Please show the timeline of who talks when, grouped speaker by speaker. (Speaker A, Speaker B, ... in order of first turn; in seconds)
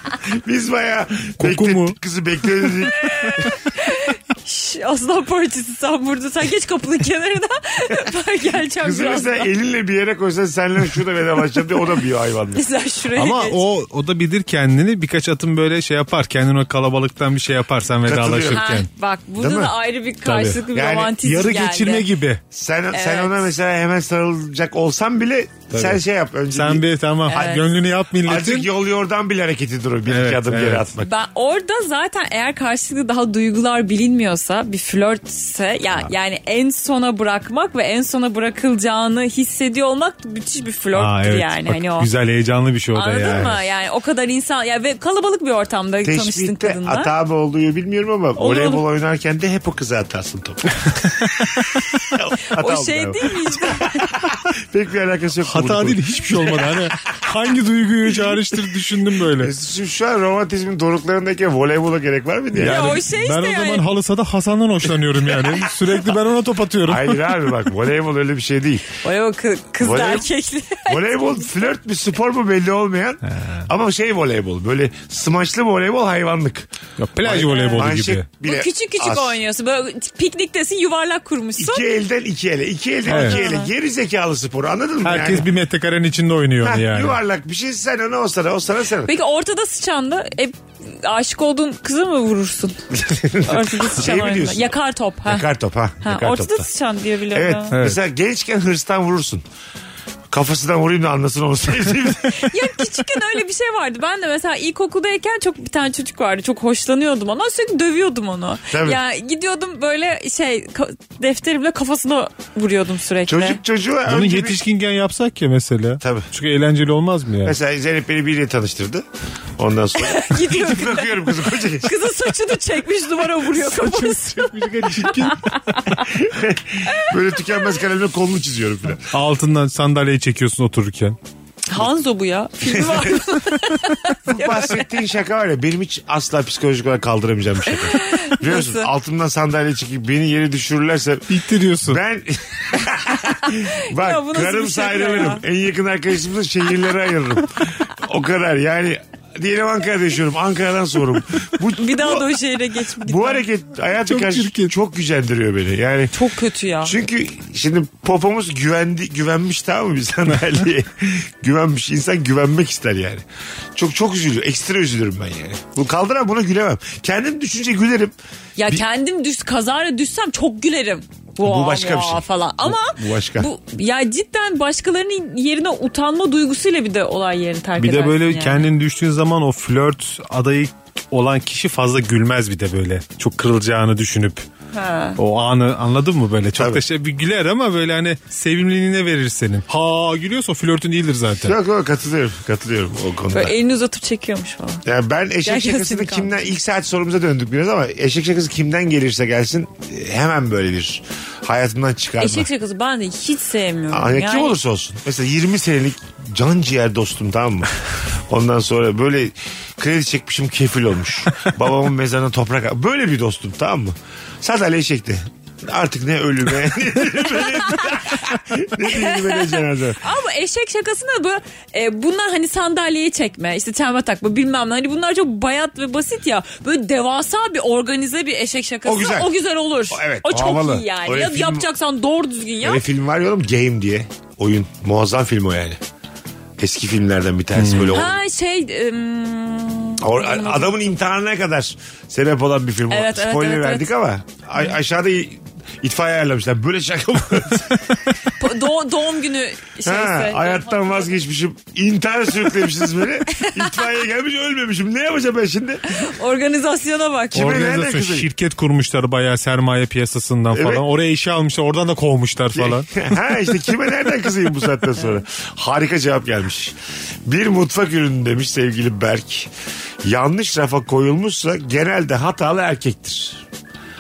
Speaker A: 0.2-3.5, 8.8-12.6, 18.1-18.7, 19.4-19.7, 20.7-21.2, 22.5-27.6, 28.2-31.2, 46.0-50.9, 52.0-56.7, 59.3-63.0, 66.9-68.9, 69.8-70.3, 70.8-79.4, 81.6-85.5, 86.6-89.1, 92.9-94.7, 95.2-96.7, 97.3-99.5, 100.3-102.8, 108.7-109.0, 113.3-114.6, 116.0-116.3, 117.4-119.1, 119.6-122.0, 126.1-129.1, 132.6-133.2, 134.3-141.3, 141.8-152.3, 153.0-156.1, 156.8-163.2, 163.8-168.1, 171.4-173.5, 186.6-186.8, 191.4-193.6, 194.8-202.5, 203.9-207.7, 208.3-220.0, 228.8-229.4, 229.9-231.7, 232.6-235.8, 236.6-238.1, 240.0-248.1, 249.8-255.8, 257.3-258.3, 260.5-260.8, 262.5-269.5, 270.0-273.4
Speaker B: 1.4-2.0, 13.2-18.9, 20.2-20.7, 21.2-22.4, 25.7-26.0, 26.5-28.7, 30.1-30.9, 40.9-43.6, 51.2-51.8, 55.4-59.5, 62.6-67.3, 73.3-73.7, 77.0-78.3, 83.1-83.5, 85.0-87.2, 97.7-98.0, 114.1-117.6, 123.5-125.8, 129.1-131.2, 141.3-142.0, 154.0-154.7, 177.8-184.4, 185.2-191.6, 237.6-238.0, 257.3-263.1
Speaker C: 2.9-9.5, 12.5-13.6, 18.5-22.1, 22.9-23.5, 27.3-27.6, 31.0-42.1, 42.9-47.1, 48.4-48.8, 52.5-54.1, 62.6-63.8, 69.0-71.5, 77.4-77.9, 78.4-81.9, 83.1-83.7, 89.1-92.8, 93.4-95.5, 96.0-97.8, 102.3-113.6, 120.0-126.0, 126.8-127.7, 131.7-134.9, 137.7-138.9, 143.4-145.4, 151.8-153.4, 156.1-157.0, 168.6-178.7, 184.7-185.2, 193.3-194.8, 195.4-196.4, 202.2-204.6, 218.8-232.8, 237.9-240.9, 242.9-243.9, 248.3-251.2, 253.3-253.6, 255.9-257.6